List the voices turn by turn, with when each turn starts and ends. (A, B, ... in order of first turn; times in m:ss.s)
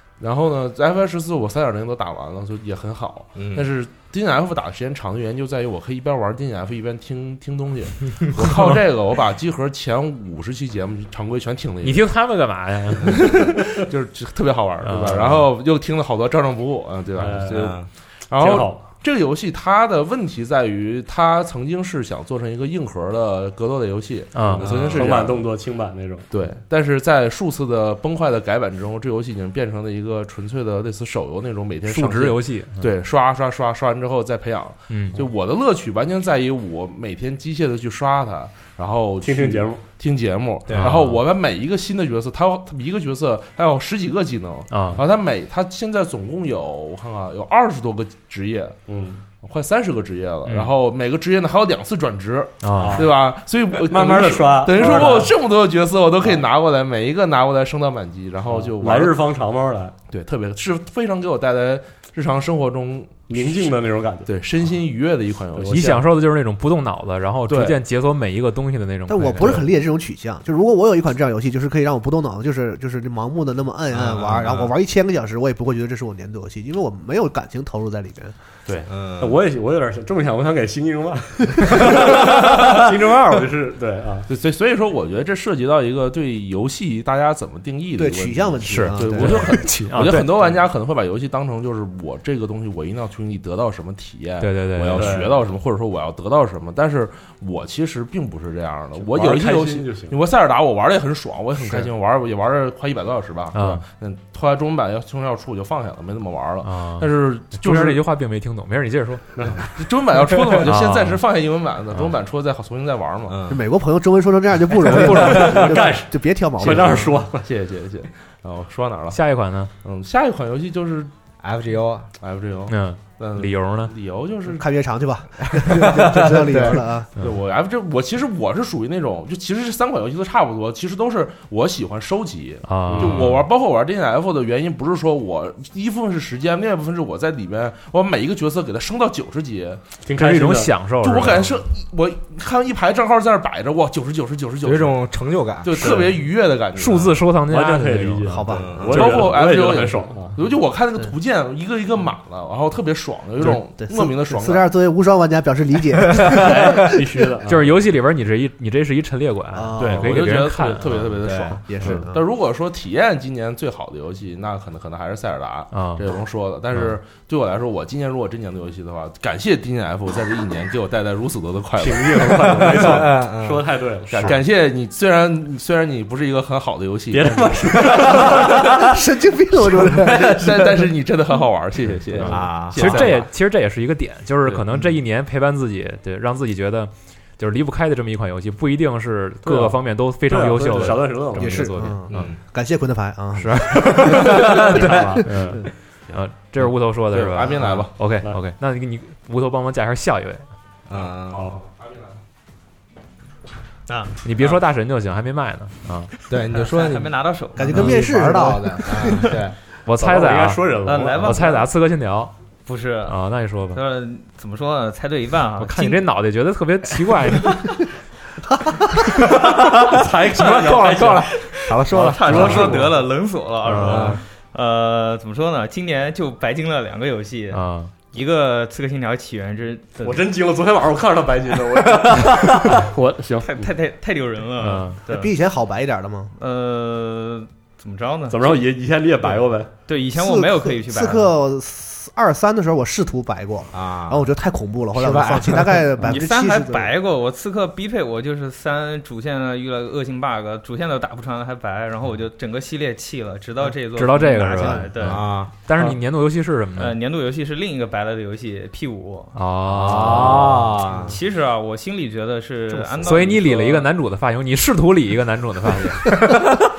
0:00.2-0:12.0 A
0:03.4-0:03.7 B
0:11.8-0:13.3 C
0:13.3-0:25.5 A
0:14.8-0:15.4 C
0:17.2-0:18.8 D
0:17.5-0:17.9 B
0:24.3-0:24.7 C
0:24.6-0:25.1 B
0:24.7-0:26.3 D
0:26.3-0:48.8 A
0:31.9-0:32.9 C
0:34.9-0:35.2 C
0:39.2-0:39.8 D
0:40.7-0:40.9 B
0:40.8-0:41.2 C
0:44.7-0:45.0 C
0:48.9-0:49.2 D
0:49.4-0:59.2 A
0:52.6-0:53.0 C
0:52.8-0:53.1 D
0:53.8-0:55.3 D
0:58.5-1:00.0 D
1:00.1-1:06.0 A
1:03.3-1:04.3 D
1:05.6-1:06.0 D
1:05.7-1:09.6 C
1:07.5-1:07.8 A
1:09.1-1:18.4 E
1:18.9-1:19.4 B
1:19.2-1:24.3 D
1:24.3-1:48.0 A
1:28.0-1:29.9 E
1:28.6-1:30.3 C
1:34.4-1:35.1 C
1:35.0-1:35.4 D
1:39.1-1:40.2 D
1:43.5-1:43.8 C
1:46.6-1:49.2 C
1:49.5-1:53.4 A
1:50.6-1:51.2 C
1:53.3-1:53.6 B
1:53.5-1:57.1 E
1:54.8-1:57.5 D
1:55.1-1:55.5 C
1:56.6-1:59.2 A
1:59.1-1:59.7 C
1:59.8-2:01.1 A
2:01.4-2:02.1 B
2:02.2-2:04.6 A
2:02.7-2:03.9 C
2:04.5-2:07.1 E
2:05.6-2:06.9 B
2:07.2-2:19.8 A
2:12.6-2:13.4 C
2:12.9-2:13.3 D
2:20.1-2:20.7 D
2:20.2-2:21.6 C
2:21.0-2:25.0 A
2:24.6-2:26.0 B
2:25.6-2:27.2 A
2:25.8-2:26.1 D
2:26.8-2:28.4 C
2:27.5-2:30.4 D
2:28.3-2:28.8 E
2:28.5-2:29.2 B
2:28.9-2:34.7 A
2:33.6-2:36.9 E
2:36.3-2:37.7 D
2:37.5-2:41.2 C
2:39.5-2:40.1 E
2:39.8-2:40.0 D
2:39.8-2:53.0 A
2:41.2-2:41.6 B
2:41.7-2:42.2 E
2:45.7-2:46.0 C
2:51.8-2:54.3 D
2:52.6-2:53.7 B
2:54.1-2:57.8 A
2:57.1-2:58.8 D
2:58.8-3:00.5 E
3:00.1-3:03.3 A
3:02.2-3:12.3 C
3:02.2-3:02.9 B
3:09.4-3:11.8 D
3:11.4-3:15.0 E
3:12.1-3:12.4 B
3:13.4-3:14.7 C
3:14.0-3:15.2 B
3:14.2-3:15.7 D
3:15.3-3:20.5 C
3:17.1-3:18.2 A
3:17.6-3:17.8 B
3:20.9-3:21.6 B
3:21.3-3:21.6 D
3:23.9-3:24.6 F
3:24.2-3:26.1 C
3:26.3-3:29.6 B
3:26.5-3:27.8 F
3:27.6-3:29.4 E
3:29.9-3:32.3 C
3:30.0-3:31.4 D
3:30.8-3:31.7 F
3:32.7-3:33.2 F
3:33.1-3:33.8 C
3:33.7-3:36.0 F
3:35.6-3:37.7 C
3:39.3-3:43.0 B
3:39.8-3:41.3 D
3:41.9-3:50.2 F
3:41.9-3:42.9 D
3:43.8-3:44.2 D
3:43.8-3:44.2 B
3:47.5-3:47.9 C
3:50.0-3:53.5 D
3:53.4-3:55.3 F
3:54.6-3:55.0 C
3:55.1-3:56.3 E
3:56.4-3:58.6 F
3:58.3-3:59.7 D
3:59.9-4:01.4 F
4:00.1-4:06.9 E
4:03.7-4:04.3 B
4:04.9-4:06.0 B
4:06.0-4:15.2 F
4:14.0-4:17.0 C
4:14.6-4:14.9 E
4:15.0-4:15.5 B
4:16.8-4:19.4 F
4:19.3-4:20.7 C
4:19.7-4:21.2 B
4:21.1-4:23.9 F
4:22.8-4:23.0 E
4:23.0-4:26.1 C